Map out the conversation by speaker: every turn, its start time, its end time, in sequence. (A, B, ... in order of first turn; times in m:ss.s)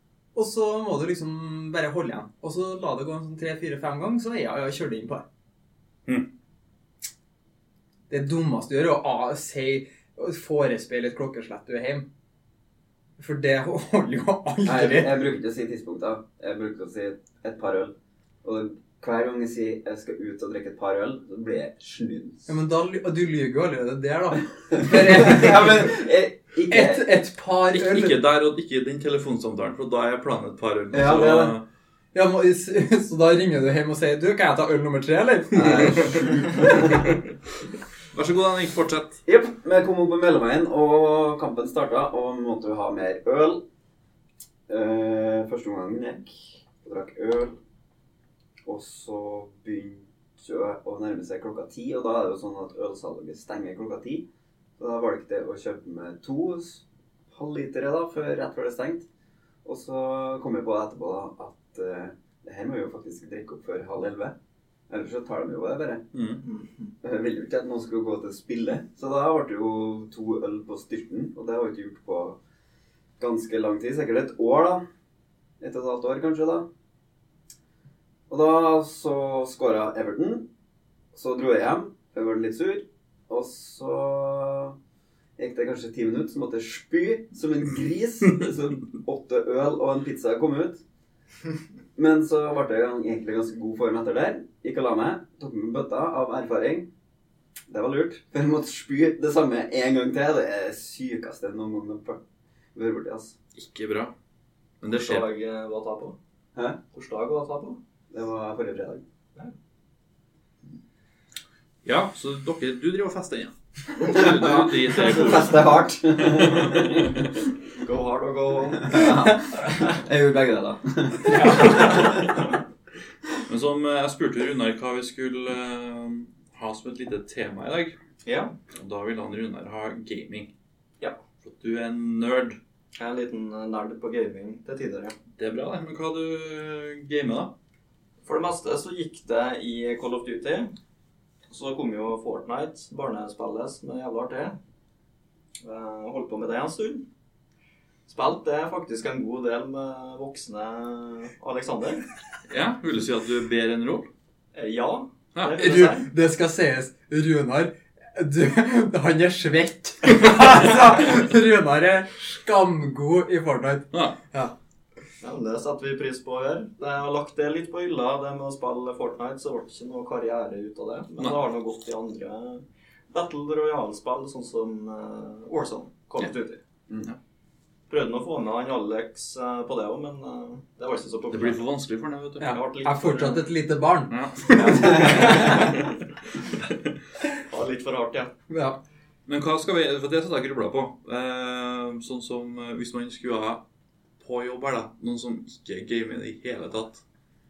0:00.3-0:05.2 A
0:08.1-0:12.0 A
0:13.2-0:15.2 A
0:14.6-0:22.5 B
0:22.5-0:25.9 A
0:24.7-0:27.1 B
0:26.7-0:28.2 A
0:27.7-0:31.6 C
0:30.9-0:31.6 B
0:32.1-0:36.4 A
0:35.5-0:37.0 B
0:38.1-0:39.2 C
0:39.2-0:43.6 B
0:44.7-0:47.6 B
0:48.6-0:54.2 B
0:54.8-0:59.0 B
0:59.6-1:04.3 B
1:04.9-1:06.0 B
1:06.1-1:06.4 C
1:06.4-1:06.8 D
1:07.0-1:12.4 B
1:13.2-1:14.8 B
1:15.6-1:16.7 B
1:18.3-1:20.5 B
1:21.1-1:24.8 B
1:25.4-1:30.8 B
1:31.9-1:36.9 B
1:37.7-1:42.2 B
1:42.7-1:43.4 B
1:43.5-1:44.1 C
1:44.8-1:45.3 C
1:44.8-1:46.2 D
1:46.9-1:47.8 D
1:48.1-1:49.0 B
1:51.8-1:57.1 C
1:54.0-1:57.2 B
1:57.8-1:59.2 D
1:58.8-2:02.2 B
2:01.3-2:02.1 A
2:03.5-2:08.0 C
2:08.2-2:08.5 D
2:08.7-2:10.5 C
2:11.4-2:12.6 C
2:13.0-2:15.1 D
2:15.4-2:17.5 C
2:18.2-2:20.7 D
2:21.5-2:24.6 D
2:25.6-2:27.0 D
2:28.1-2:32.0 D
2:32.5-2:34.1 C
2:34.5-2:36.1 D
2:35.3-2:35.6 C
2:35.6-2:44.5 A
2:43.9-2:44.2 C
2:45.2-2:56.6 D
2:57.9-3:01.6 D
3:01.3-3:02.6 C
3:02.4-3:05.7 A
3:02.4-3:03.5 D
3:04.1-3:05.9 C
3:04.8-3:05.8 D
3:07.5-3:08.3 D
3:08.5-3:08.8 A
3:09.3-3:13.6 C
3:14.2-3:17.0 C